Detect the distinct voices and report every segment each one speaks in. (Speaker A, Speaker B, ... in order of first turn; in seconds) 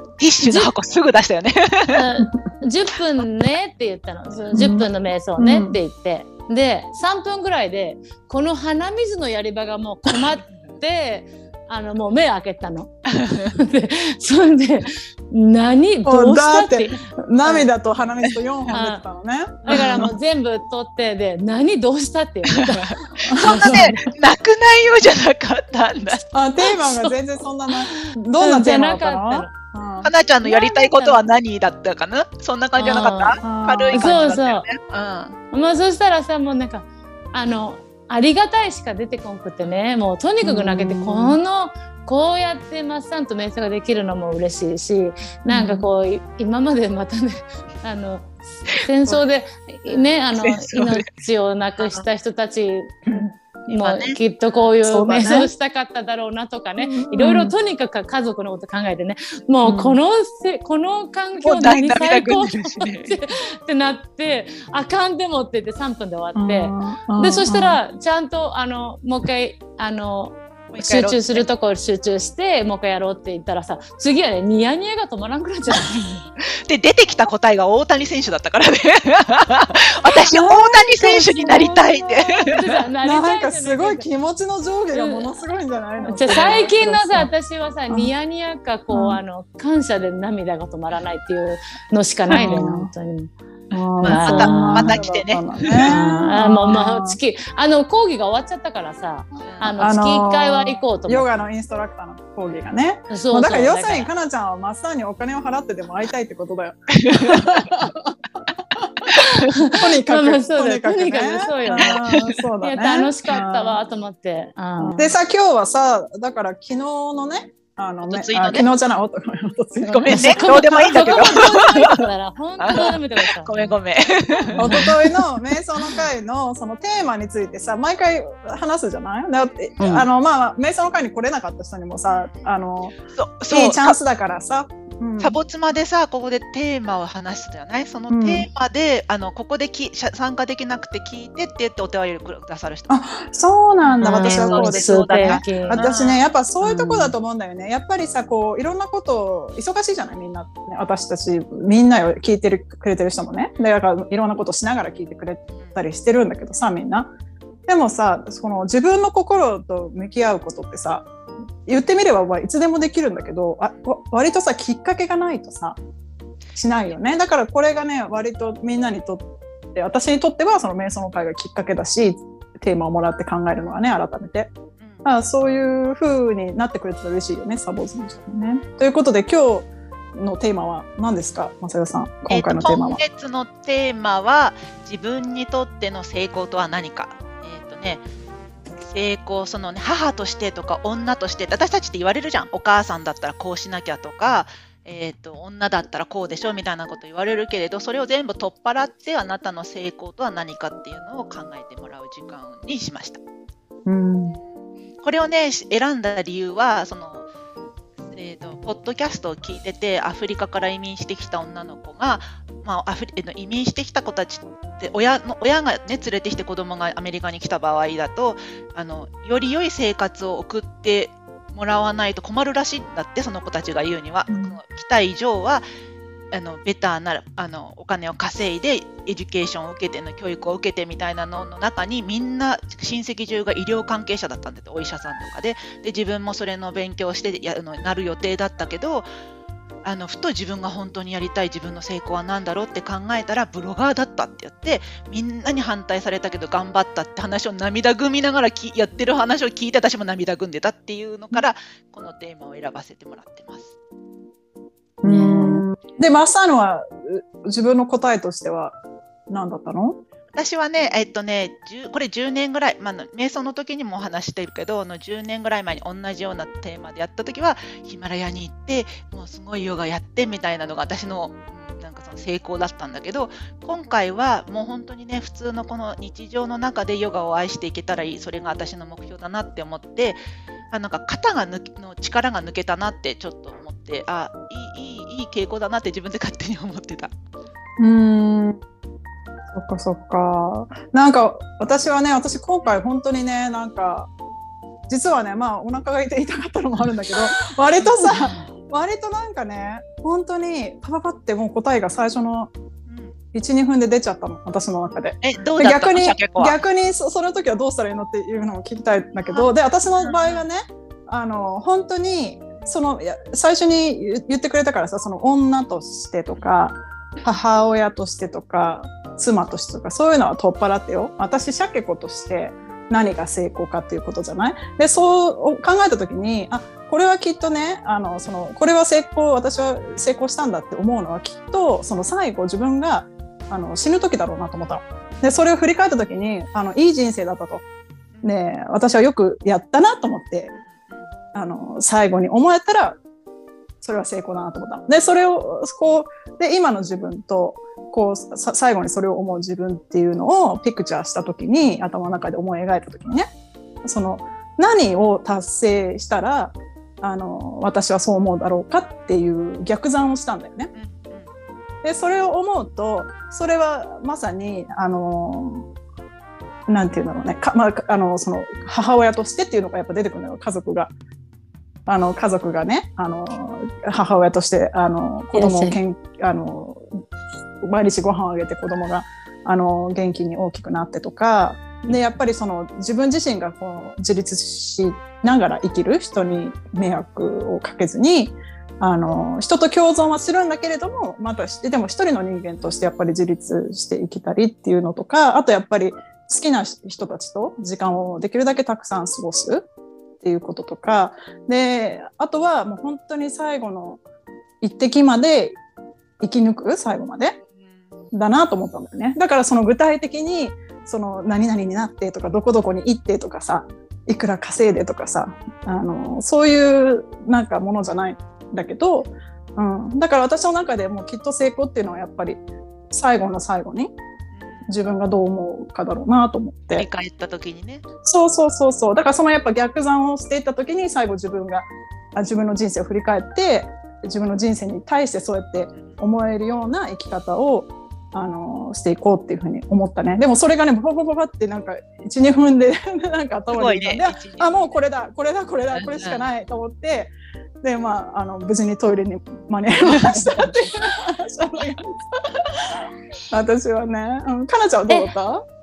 Speaker A: 0.2-2.0, 13.2-13.6, 19.6-20.1, 22.5-26.2, 30.0-35.4, 48.7-49.2, 49.9-51.1, 51.8-52.0, 53.7-54.6, 61.4-63.2, 70.7-71.5, 76.5-82.7, 86.3-86.5, 94.0-96.3, 99.4-99.8, 107.0-107.7, 111.7-112.3, 118.0-118.7, 119.9-122.0, 122.6-124.9, 132.1-134.0, 135.2-143.1, 143.8-146.3, 174.8-175.1, 182.3-188.0, 188.8-203.2, 205.0-207.3, 208.1-225.7, 226.3-239.1, 239.8-253.7, 260.3-287.1, 302.9-303.1, 305.2-306.6, 309.2-310.5, 316.3-316.8, 335.1-335.4, 340.5-341.1, 360.7-361.3, 424.3-424.7, 426.7-427.9, 435.8-436.0, 443.5-444.7, 445.7-446.3, 449.9-450.7
Speaker B: 0.4-0.7, 1.9-17.7, 18.7-19.0, 19.7-24.1, 26.6-27.1, 27.7-29.5, 30.4-31.2, 32.8-33.4, 33.9-34.6, 35.5-76.2, 82.5-84.1, 84.9-85.3, 86.0-93.3, 94.0-95.0, 95.8-101.3, 103.1-104.1, 109.5-112.0, 112.6-115.1, 120.1-123.5, 124.5-124.9, 129.8-130.1, 144.0-145.9, 146.6-147.1, 255.0-255.7, 375.3-375.8
Speaker C: 4.5-5.8, 16.1-20.1, 23.3-23.9, 26.3-30.1, 33.4-34.0, 40.4-41.4, 45.5-45.9, 54.9-55.5, 56.8-57.5, 59.6-60.0, 66.3-67.8, 80.3-82.5, 83.0-87.3, 88.9-89.2, 92.3-92.9, 93.7-97.2, 99.8-108.2, 108.8-113.8, 114.8-121.6, 124.6-133.0, 133.5-135.4, 138.1-138.5, 142.9-157.1, 157.7-161.1, 161.7-165.8, 166.6-174.5, 175.0-183.0, 203.9-204.4, 224.3-224.6, 255.0-258.8, 259.3-260.0, 287.8-288.6, 289.5-294.1, 294.9-302.5, 303.3-337.6, 338.2-340.5, 341.3-343.0, 343.8-353.3, 353.8-360.7, 361.8-365.7, 366.7-370.9, 371.9-377.0, 377.6-399.7, 400.2-404.0, 404.6-405.6, 406.2-407.4, 408.1-423.9, 424.7-426.9, 428.1-455.4